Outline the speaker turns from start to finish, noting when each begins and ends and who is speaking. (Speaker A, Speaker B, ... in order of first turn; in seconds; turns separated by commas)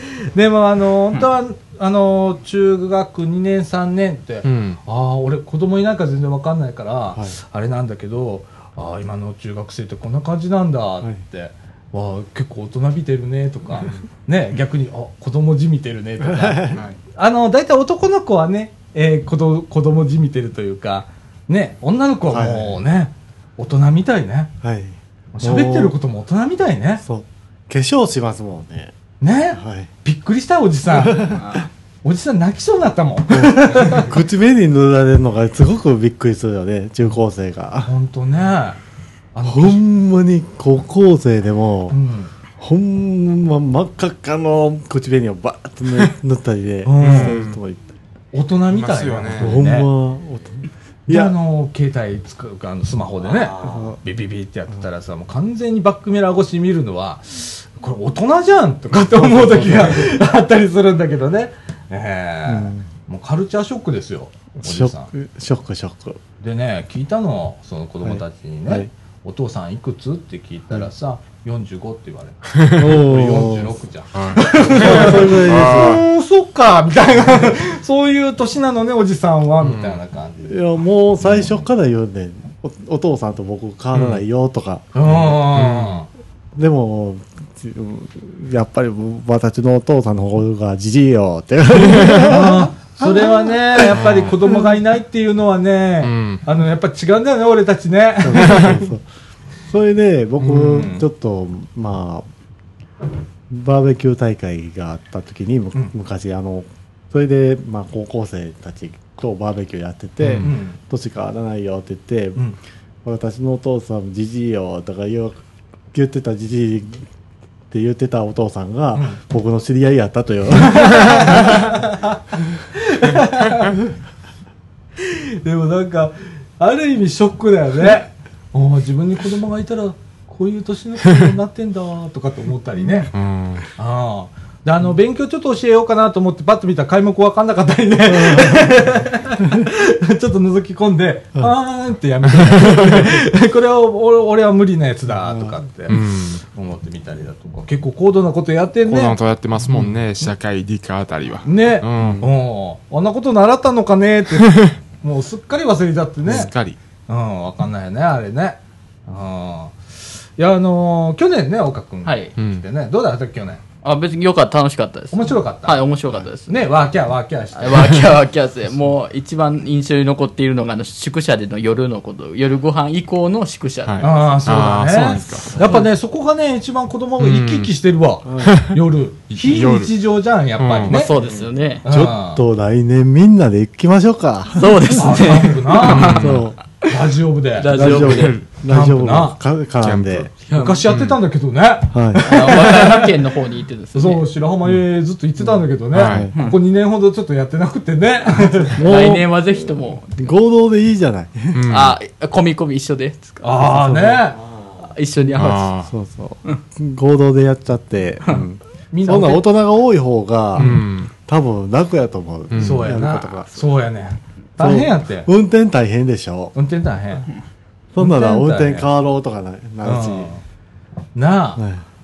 Speaker A: 0.3-24.5, Speaker B: 4.4-4.8, Speaker C: 16.2-16.8, Speaker C: 22.3-22.8, Speaker C: 24.6-26.0, Speaker A: 25.3-27.0, Speaker C: 27.0-28.9, Speaker A: 29.2-31.4, Speaker C: 29.6-29.9, Speaker C: 30.9-31.5, Speaker D: 31.3-31.7, Speaker A: 32.0-34.1, Speaker C: 33.3-37.9, Speaker A: 37.9-38.8, Speaker A: 39.3-39.8, Speaker C: 39.4-42.0, Speaker A: 41.9-42.3, Speaker C: 42.6-47.8, Speaker A: 46.8-47.4, Speaker B: 47.0-47.6, Speaker A: 48.3-49.9, Speaker B: 48.7-49.6, Speaker C: 49.4-51.4, Speaker A: 51.1-65.1, Speaker C: 53.6-54.0, Speaker C: 59.0-60.2, Speaker C: 62.5-62.9, Speaker C: 64.6-66.2, Speaker A: 66.4-80.8, Speaker C: 68.0-68.9, Speaker B: 72.5-72.9, Speaker C: 72.8-73.7, Speaker B: 74.1-76.0, Speaker C: 74.6-76.0, Speaker B: 79.6-80.0, Speaker C: 80.5-85.4, Speaker B: 83.9-84.2, Speaker A: 84.9-86.1, Speaker B: 85.5-86.0, Speaker C: 86.6-94.0, Speaker B: 91.8-92.4, Speaker A: 92.2-98.9, Speaker B: 93.9-94.3, Speaker B: 96.0-96.4, Speaker C: 98.2-99.0, Speaker B: 98.4-98.7, Speaker C: 99.7-102.3, Speaker B: 100.4-100.7, Speaker A: 100.5-101.0, Speaker C: 103.5-112.4, Speaker B: 110.2-110.5, Speaker A: 110.4-110.8, Speaker C: 113.0-115.4, Speaker C: 115.9-117.0, Speaker C: 117.7-121.8, Speaker A: 120.6-122.2, Speaker A: 122.7-123.8, Speaker A: 125.0-133.1, Speaker B: 133.1-133.7, Speaker A: 133.8-149.2, Speaker C: 138.1-138.7, Speaker B: 142.3-143.1, Speaker C: 145.3-145.5, Speaker B: 145.9-146.4, Speaker B: 148.9-152.3, Speaker A: 151.4-156.5, Speaker B: 154.5-154.7, Speaker B: 156.3-156.8, Speaker A: 157.1-159.8, Speaker A: 160.4-163.6, Speaker D: 162.1-162.3, Speaker B: 162.4-162.6, Speaker D: 163.8-166.6, Speaker A: 165.1-165.9, Speaker A: 166.5-168.1, Speaker D: 167.6-174.3, Speaker B: 173.8-175.6, Speaker A: 174.0-181.1, Speaker D: 175.3-175.9, Speaker B: 177.2-177.7, Speaker C: 178.2-178.6, Speaker B: 178.4-178.8, Speaker B: 179.3-179.9, Speaker B: 180.6-181.1, Speaker D: 180.9-181.8, Speaker C: 181.2-185.2, Speaker A: 181.8-182.4, Speaker D: 184.6-186.4, Speaker A: 185.0-186.3, Speaker B: 185.8-186.4, Speaker C: 186.2-186.6, Speaker A: 186.8-188.1, Speaker D: 187.6-188.4, Speaker C: 187.7-190.3, Speaker B: 187.8-188.4, Speaker A: 188.7-189.4, Speaker B: 189.8-190.3, Speaker A: 190.5-193.2, Speaker D: 190.5-190.8, Speaker B: 190.9-191.2, Speaker C: 191.9-192.6, Speaker D: 192.2-194.2, Speaker A: 193.9-198.8, Speaker C: 195.4-196.3, Speaker B: 195.9-196.3, Speaker C: 198.8-201.7, Speaker D: 198.8-200.4, Speaker B: 201.5-202.0, Speaker D: 201.7-203.6, Speaker A: 203.4-204.4, Speaker C: 203.7-204.6, Speaker D: 204.8-205.7, Speaker B: 205.3-205.9, Speaker C: 205.9-213.5, Speaker A: 208.9-209.5, Speaker B: 210.6-211.1, Speaker B: 212.5-212.9, Speaker A: 212.6-215.3, Speaker C: 214.6-216.6, Speaker A: 216.6-217.3, Speaker C: 217.9-220.3, Speaker A: 218.0-218.9, Speaker A: 219.8-220.4, Speaker A: 221.2-221.6, Speaker C: 221.6-221.8